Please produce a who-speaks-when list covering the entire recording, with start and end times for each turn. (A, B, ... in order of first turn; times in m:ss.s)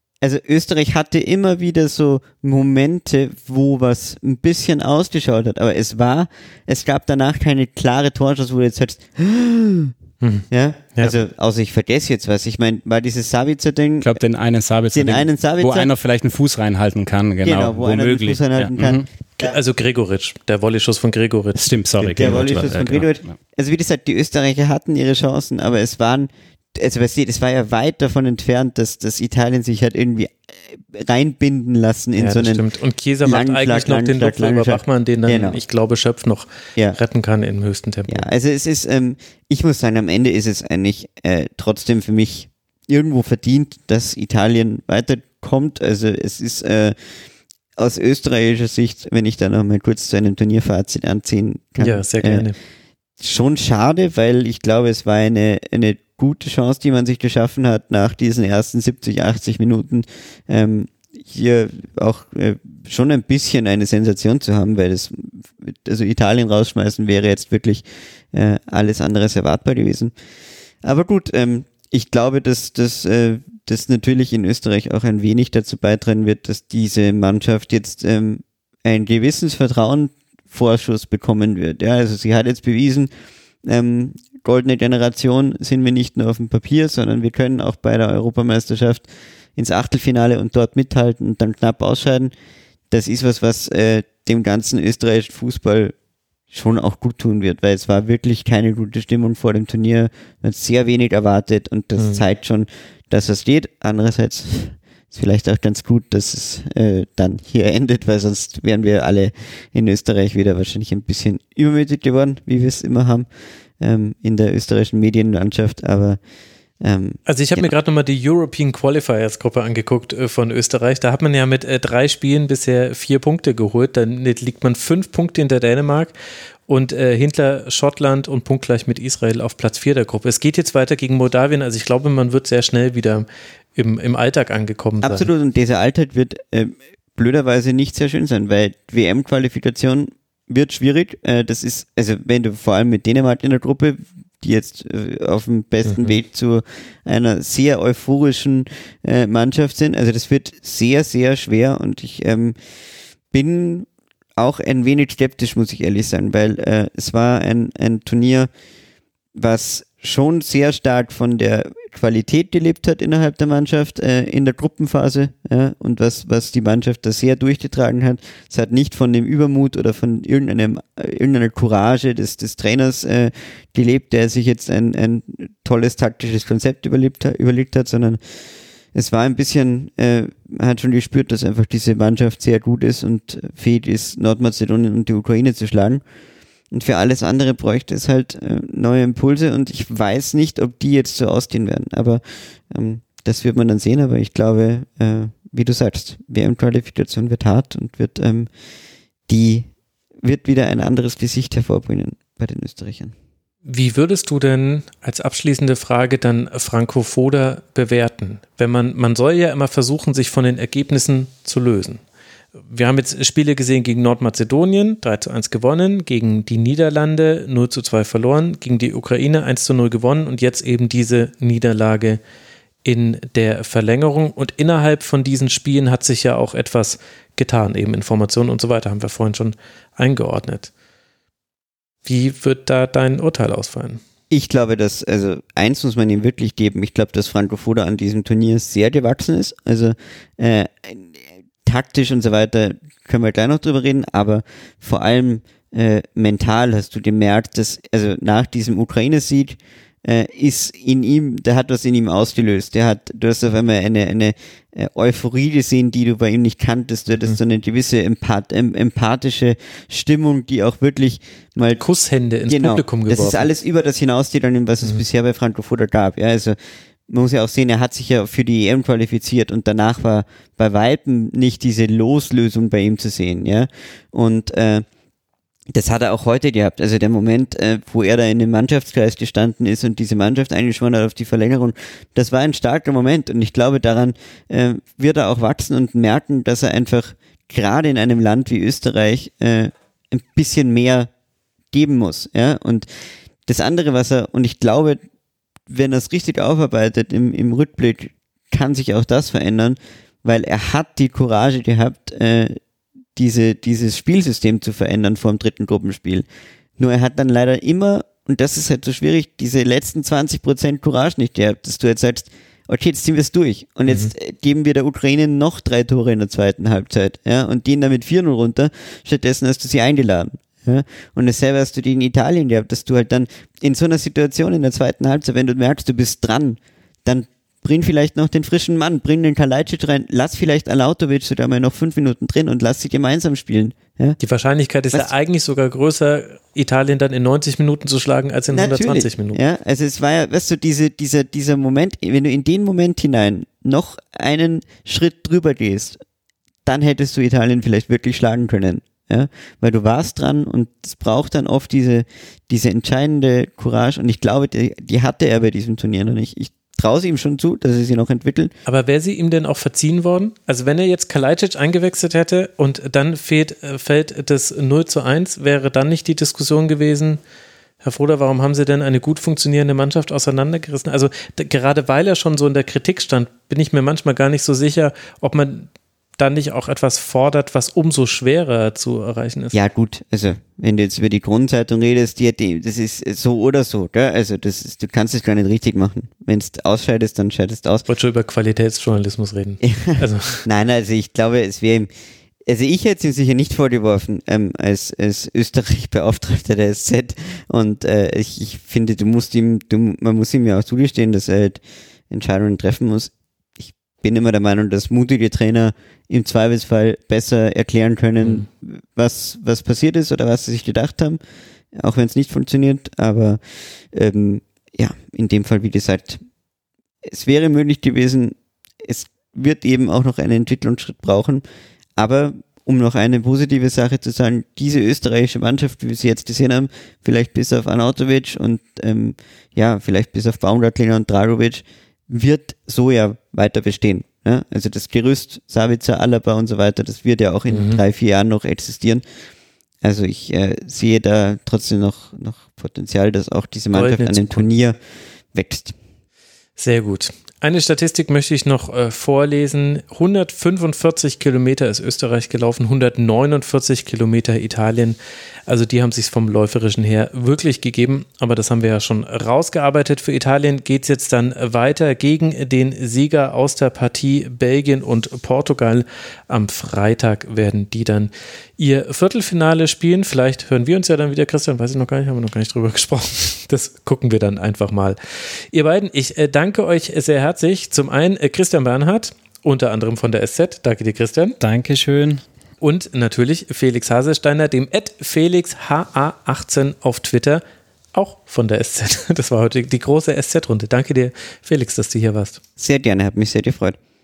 0:00.2-0:09.9 A
0:10.2-0:11.2 B
0:10.5-0:14.2 A
0:14.0-0:19.0 C
0:14.9-0:15.9 A
0:17.4-0:19.6 A
0:19.4-0:22.4 B
0:21.6-0:23.1 C
0:22.1-0:32.6 A
0:32.2-0:38.3 B
0:33.2-0:35.6 A
0:38.1-0:47.0 A
0:47.8-0:52.5 A
0:51.8-0:52.6 B
0:53.2-1:10.1 A
1:10.8-1:23.1 A
1:23.6-1:32.3 A
1:32.9-1:36.0 A
1:36.5-1:53.2 A
1:42.0-1:42.2 B
1:53.8-1:56.2 A
1:56.8-1:57.7 A
1:57.2-2:06.1 B
2:06.7-2:15.3 B
2:15.0-2:32.6 A
2:25.8-2:26.2 B
2:33.3-2:38.5 A
2:39.3-2:58.2 A
2:58.9-3:06.0 A
3:06.7-3:18.5 A
3:19.3-3:19.7 A
3:20.2-3:23.1 A
3:23.6-3:32.0 B
3:32.7-3:42.2 B
3:42.8-3:50.7 B
3:52.0-3:54.0 B
3:54.3-4:21.8 A
4:21.8-4:23.5 B
4:22.5-4:26.6 A
4:27.1-4:34.8 A
4:35.7-4:51.1 A
4:51.7-4:52.9 A
4:53.5-4:55.0 A
4:55.7-5:02.6 A
5:03.2-5:06.2 A
5:06.8-5:34.2 A
5:34.2-5:39.4 B
5:38.5-5:46.0 A
5:46.6-5:58.5 A
5:58.6-6:07.2 B
6:07.8-6:19.6 B
6:19.5-6:27.8 A
6:27.9-6:30.4 B
6:29.6-6:31.9 A
6:32.4-6:51.2 A
6:51.7-6:56.2 A
6:57.0-7:01.4 A
7:02.0-7:19.0 A
7:17.5-7:17.8 B
7:19.8-7:24.8 A
7:23.7-7:24.5 B
7:25.3-7:25.8 A
7:26.6-7:55.0 B
7:55.5-8:01.4 B
8:01.4-8:02.2 C
8:02.6-8:07.4 B
8:07.9-8:12.4 B
8:12.6-8:13.8 A